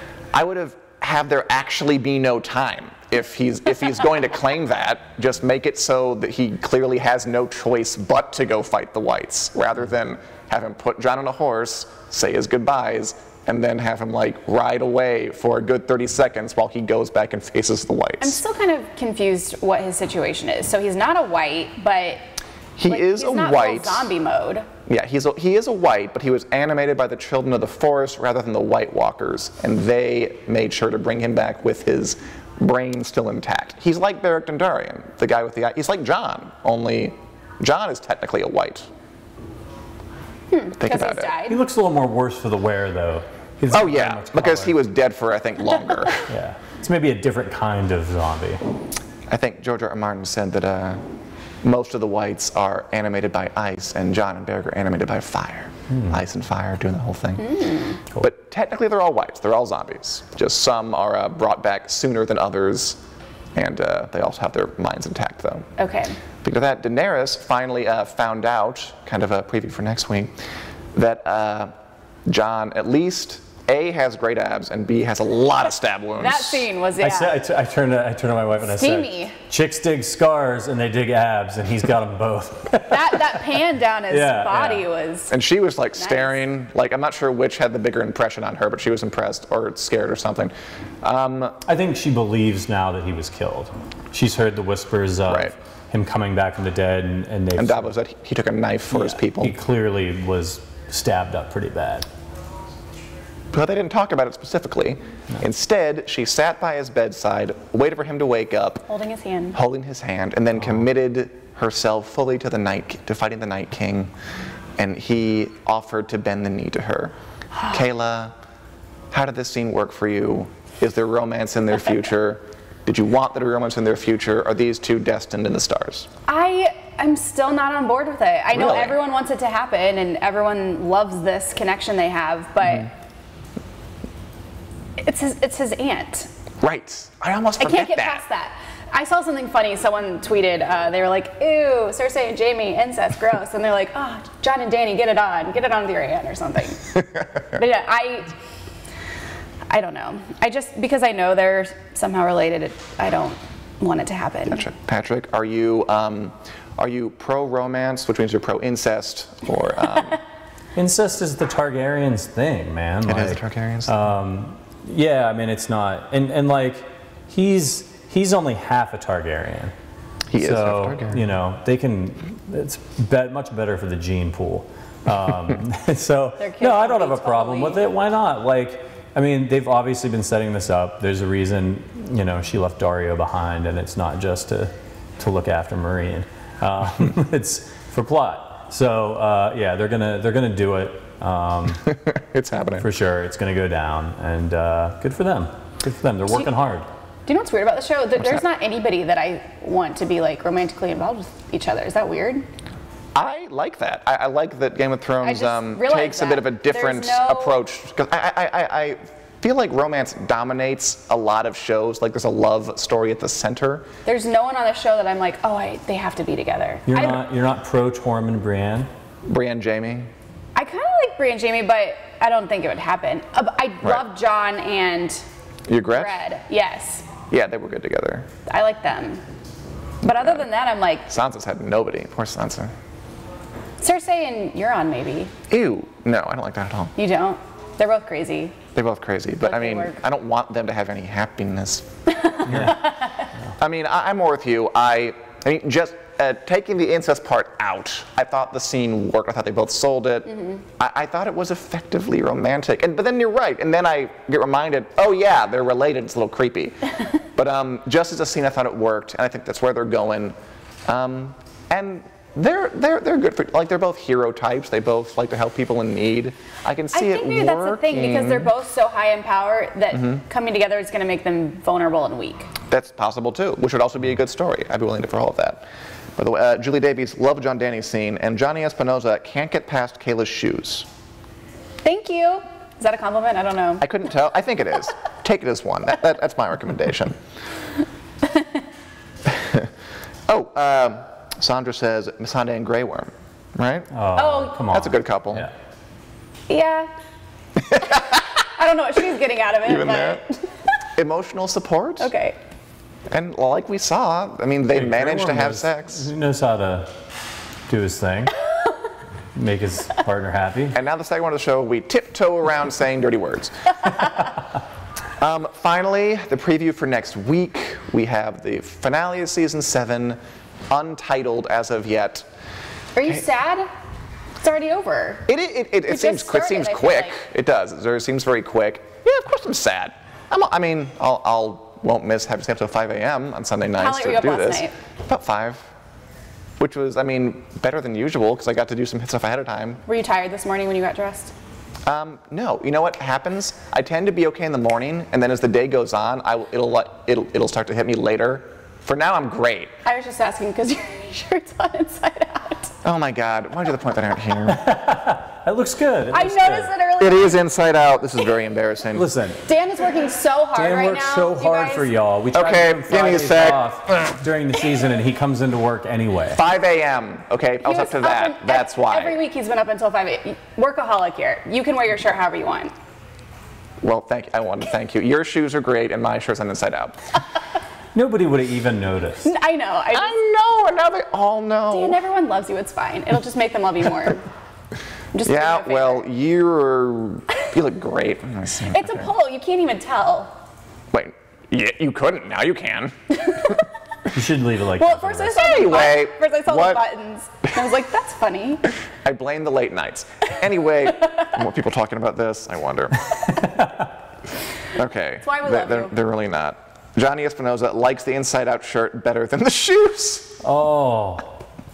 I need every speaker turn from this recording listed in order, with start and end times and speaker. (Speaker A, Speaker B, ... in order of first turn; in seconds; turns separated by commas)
Speaker A: 0.3-18.4, Speaker B: 18.2-22.2, Speaker A: 22.8-24.1, Speaker B: 22.9-24.7, Speaker A: 24.9-38.9, Speaker B: 40.5-41.6, Speaker A: 40.8-41.3, Speaker C: 41.5-44.8, Speaker A: 43.7-46.3, Speaker C: 46.3-48.6, Speaker A: 49.3-51.0, Speaker A: 51.6-57.6, Speaker C: 55.9-56.2, Speaker B: 57.4-58.0, Speaker A: 58.1-63.0, Speaker A: 63.6-65.7, Speaker B: 65.8-66.2, Speaker A: 66.4-70.3, Speaker A: 71.0-71.7, Speaker A: 72.3-76.7, Speaker B: 76.2-77.4, Speaker C: 77.0-84.9, Speaker B: 78.6-79.4, Speaker B: 82.9-85.3, Speaker A: 85.3-91.6, Speaker B: 86.0-86.4, Speaker C: 91.7-97.9, Speaker A: 95.3-95.5, Speaker A: 97.6-99.5, Speaker C: 98.9-102.1, Speaker A: 103.5-108.8, Speaker B: 108.9-109.6, Speaker A: 109.5-114.1, Speaker A: 114.8-117.1, Speaker A: 117.7-118.3, Speaker A: 119.1-126.1, Speaker B: 126.3-132.9, Speaker A: 128.5-129.0, Speaker B: 135.0-136.3, Speaker A: 136.6-138.2, Speaker B: 137.6-147.0, Speaker B: 147.5-148.3, Speaker B: 149.7-154.6, Speaker A: 154.5-160.2, Speaker C: 160.8-169.7, Speaker A: 163.1-164.0, Speaker A: 170.3-171.2, Speaker C: 170.4-191.9, Speaker B: 176.4-177.8, Speaker A: 191.8-192.9, Speaker C: 192.8-196.9, Speaker B: 197.3-202.5, Speaker A: 198.2-198.4, Speaker A: 203.2-213.9, Speaker B: 205.2-207.6, Speaker B: 214.1-217.2, Speaker C: 216.9-218.9, Speaker A: 219.3-220.1, Speaker B: 220.6-225.3, Speaker A: 225.7-226.2, Speaker B: 225.9-227.1, Speaker A: 227.3-228.3, Speaker B: 228.5-229.2, Speaker B: 230.0-231.1, Speaker A: 231.1-232.7, Speaker B: 233.8-235.3, Speaker A: 235.5-236.9, Speaker B: 237.0-238.6, Speaker A: 238.8-241.9, Speaker B: 239.4-240.0, Speaker B: 242.2-243.3, Speaker C: 242.4-242.8, Speaker A: 243.6-268.5, Speaker B: 266.9-272.5, Speaker A: 272.7-275.6, Speaker A: 276.2-280.9, Speaker B: 281.8-283.9, Speaker A: 283.8-287.2, Speaker B: 288.2-288.5, Speaker A: 289.3-289.7, Speaker A: 290.3-293.9, Speaker C: 293.9-295.5, Speaker B: 294.1-294.6, Speaker A: 294.7-295.5, Speaker B: 296.5-296.9, Speaker A: 297.6-298.2, Speaker B: 297.9-300.7, Speaker A: 299.6-300.2, Speaker A: 301.0-302.1, Speaker B: 302.0-302.4, Speaker A: 303.1-306.1, Speaker C: 304.7-306.9, Speaker C: 307.7-308.4, Speaker C: 309.4-310.8, Speaker A: 310.7-313.8, Speaker A: 315.2-320.2, Speaker A: 320.7-322.3, Speaker B: 322.9-323.7, Speaker B: 324.4-325.3, Speaker A: 325.3-335.7, Speaker B: 325.9-327.2, Speaker B: 333.8-334.8, Speaker A: 336.6-339.8, Speaker B: 339.9-341.3, Speaker A: 341.9-349.7, Speaker B: 349.8-352.7, Speaker A: 352.8-354.6, Speaker C: 354.5-356.7, Speaker B: 356.1-357.4, Speaker A: 357.0-359.1, Speaker C: 358.9-359.4, Speaker B: 359.4-361.9, Speaker C: 360.6-366.4, Speaker A: 362.3-364.2, Speaker A: 366.3-369.2, Speaker B: 367.6-372.7, Speaker A: 373.8-377.0, Speaker C: 377.9-379.3, Speaker B: 379.2-380.2, Speaker A: 379.9-382.0, Speaker B: 381.7-384.2, Speaker B: 385.1-386.1, Speaker A: 385.2-389.1, Speaker B: 388.7-390.3, Speaker A: 390.9-393.6, Speaker C: 394.1-395.5, Speaker B: 394.8-398.6, Speaker A: 395.4-396.8, Speaker A: 399.0-403.3, Speaker C: 403.3-403.9, Speaker A: 404.7-410.4, Speaker B: 405.2-405.9, Speaker C: 410.4-411.3